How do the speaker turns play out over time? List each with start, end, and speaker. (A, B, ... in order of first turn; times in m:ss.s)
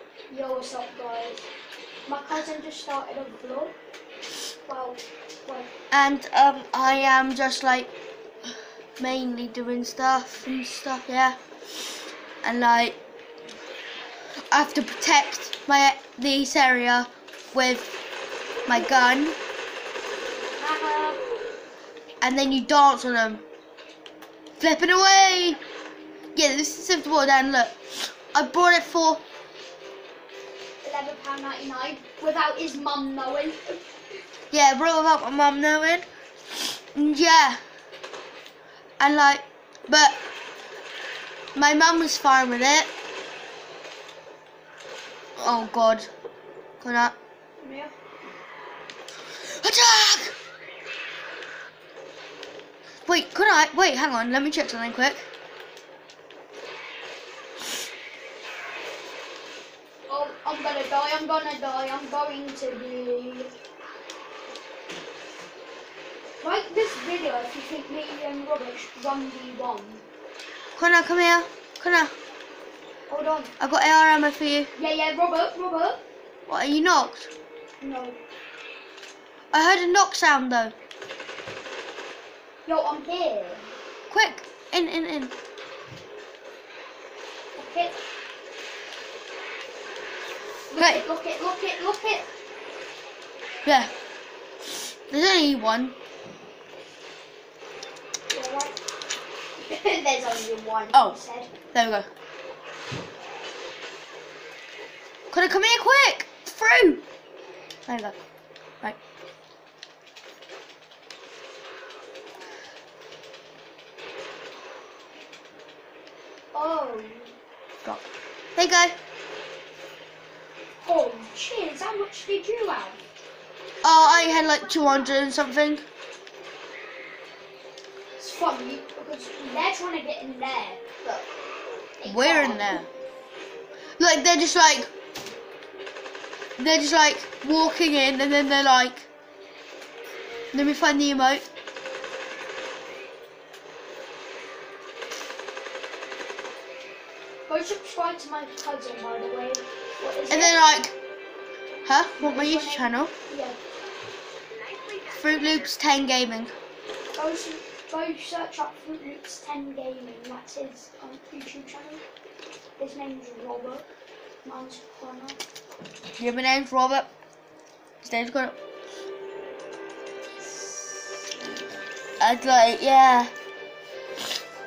0:00.3-0:01.4 A
0:02.0-0:03.7 A
0:04.7-0:05.7 A
0:05.9-0:07.9 B
0:09.0-0:11.4 B
0:12.4-0:13.0 B
0:14.5-0:17.9 B
0:18.6-0:19.4 B
0:20.6-0:21.2 A
0:22.2-0:23.4 B
0:24.6-0:25.6 B
0:26.3-0:29.2 B
0:30.8-0:33.8 A
0:34.5-0:36.1 B
0:36.9-0:37.6 B
0:39.0-0:40.2 B
0:41.5-0:42.9 B
0:45.4-0:46.1 B
0:46.8-0:47.1 B
0:47.6-0:47.9 A
0:49.4-0:50.3 B
0:53.0-0:55.3 B
1:00.1-1:03.5 A
1:06.4-1:10.0 A
1:10.7-1:12.1 B
1:13.1-1:13.5 A
1:13.6-1:14.7 B
1:14.7-1:16.0 A
1:16.5-1:17.3 B
1:17.8-1:18.2 A
1:19.5-1:20.7 B
1:22.6-1:23.7 A
1:24.1-1:25.3 B
1:27.6-1:28.0 A
1:30.7-1:32.3 A
1:30.8-1:31.0 B
1:33.6-1:33.9 B
1:35.1-1:35.9 B
1:38.3-1:38.8 A
1:39.6-1:41.5 A
1:41.7-1:42.1 B
1:45.3-1:47.0 B
1:47.9-1:48.1 B
1:56.5-1:57.3 A
1:58.6-1:59.0 B
2:00.8-2:03.0 A
2:03.8-2:05.8 B
2:08.2-2:11.2 A
2:12.0-2:12.8 A
2:12.0-2:12.9 B
2:14.0-2:14.9 B
2:16.6-2:19.1 B
2:20.5-2:21.4 B
2:27.5-2:30.6 A
2:30.3-2:30.9 B
2:31.8-2:33.1 B
2:32.2-2:33.6 A
2:35.1-2:36.5 B
2:37.1-2:42.0 A
2:42.8-2:43.8 A
2:44.4-2:45.4 A
2:46.2-2:47.1 B
2:48.0-2:48.5 B
2:50.3-2:51.5 A
2:52.2-2:53.3 B